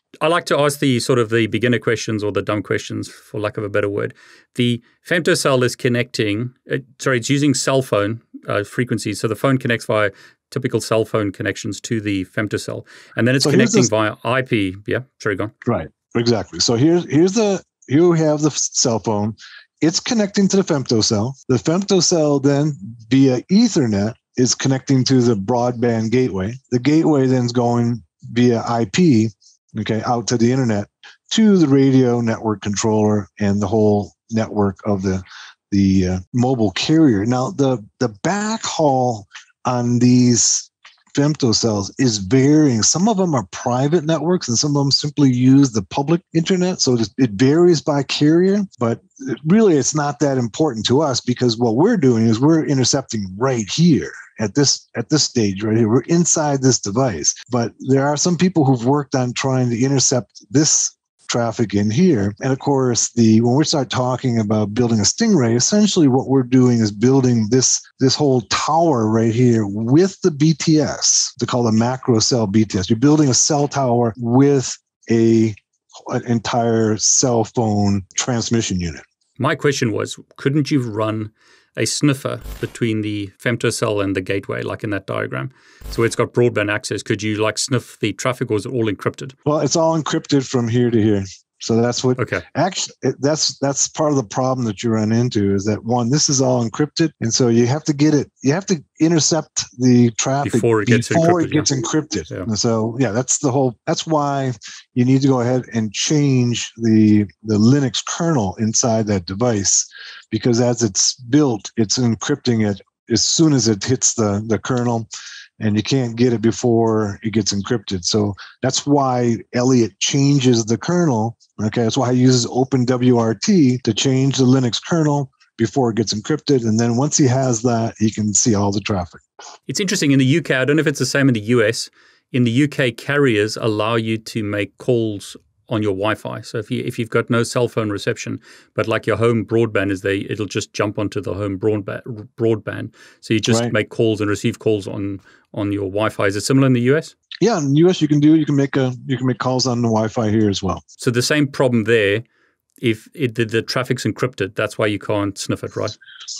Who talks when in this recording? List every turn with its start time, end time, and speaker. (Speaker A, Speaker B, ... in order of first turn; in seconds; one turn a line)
Speaker A: 0.2-15.5
Speaker B: 13.4-13.9
Speaker B: 15.7-75.5
Speaker B: 76.1-79.0
Speaker A: 79.4-89.3
Speaker B: 89.5-115.1
Speaker A: 92.2-92.4
Speaker A: 100.4-101.7
Speaker B: 115.6-129.2
Speaker A: 129.7-147.1
Speaker B: 143.5-143.7
Speaker B: 147.4-150.8
Speaker A: 151.0-152.2
Speaker A: 152.8-155.9